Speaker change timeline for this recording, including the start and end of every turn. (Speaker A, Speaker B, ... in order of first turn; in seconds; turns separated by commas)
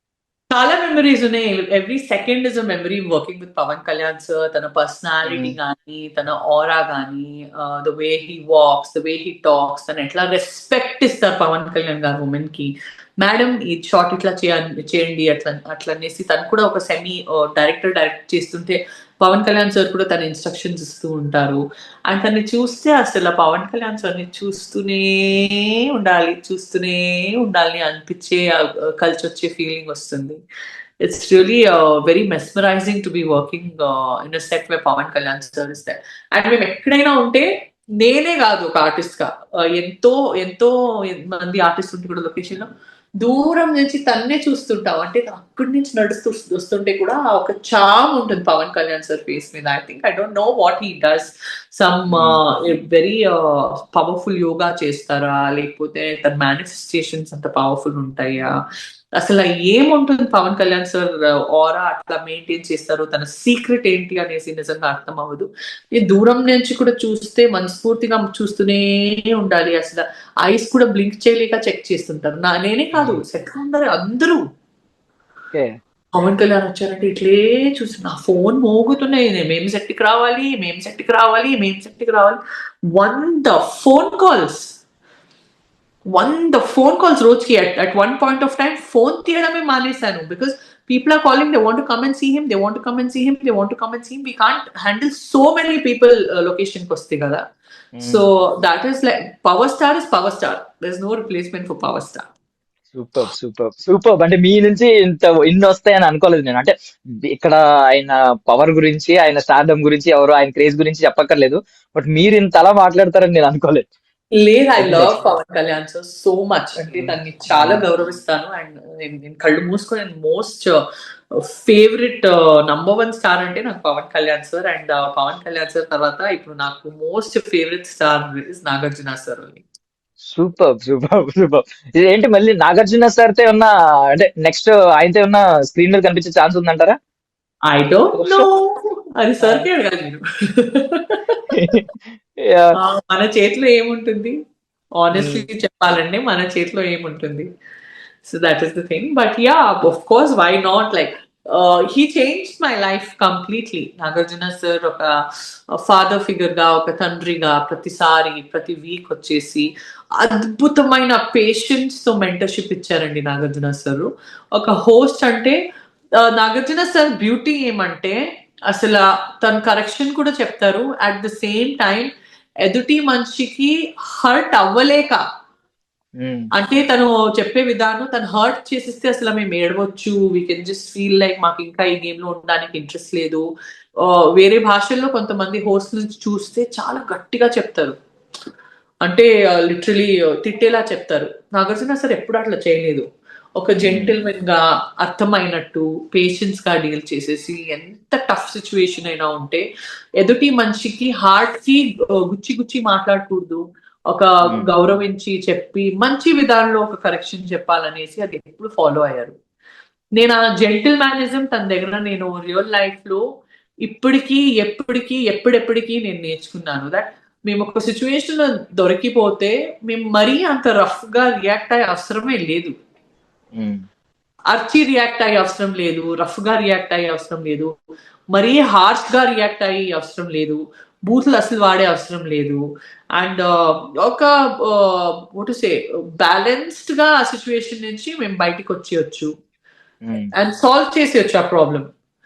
Speaker A: 0.5-30.4, Speaker B: 5.2-5.5, Speaker A: 31.0-37.5, Speaker A: 38.0-42.7, Speaker A: 43.2-58.5, Speaker B: 52.1-52.4, Speaker A: 59.2-74.4, Speaker B: 72.9-73.2, Speaker A: 76.2-82.4, Speaker A: 82.9-84.8, Speaker A: 86.1-97.4, Speaker B: 98.0-98.3, Speaker A: 98.0-102.2, Speaker B: 102.9-106.7, Speaker B: 107.3-113.8, Speaker A: 114.4-120.8, Speaker B: 114.8-115.3, Speaker B: 116.8-117.9, Speaker A: 121.4-129.6, Speaker B: 130.3-136.9, Speaker A: 137.7-141.4, Speaker B: 138.1-138.5, Speaker B: 139.4-139.7, Speaker B: 141.5-141.8, Speaker A: 142.8-144.3, Speaker A: 145.0-147.5, Speaker B: 145.1-145.4, Speaker A: 148.2-155.2, Speaker A: 155.7-165.6, Speaker A: 166.2-168.2, Speaker A: 168.7-172.1, Speaker A: 172.6-175.2, Speaker B: 176.2-176.5, Speaker A: 176.5-183.4, Speaker A: 184.0-187.9, Speaker A: 189.0-193.1, Speaker A: 193.6-199.7, Speaker B: 193.8-194.2, Speaker A: 200.2-209.3, Speaker B: 204.4-204.7, Speaker A: 210.2-213.2, Speaker A: 213.8-222.7, Speaker B: 223.6-223.8, Speaker A: 224.5-227.7, Speaker A: 228.3-232.6, Speaker A: 233.2-239.3, Speaker B: 240.1-240.3, Speaker A: 240.3-241.8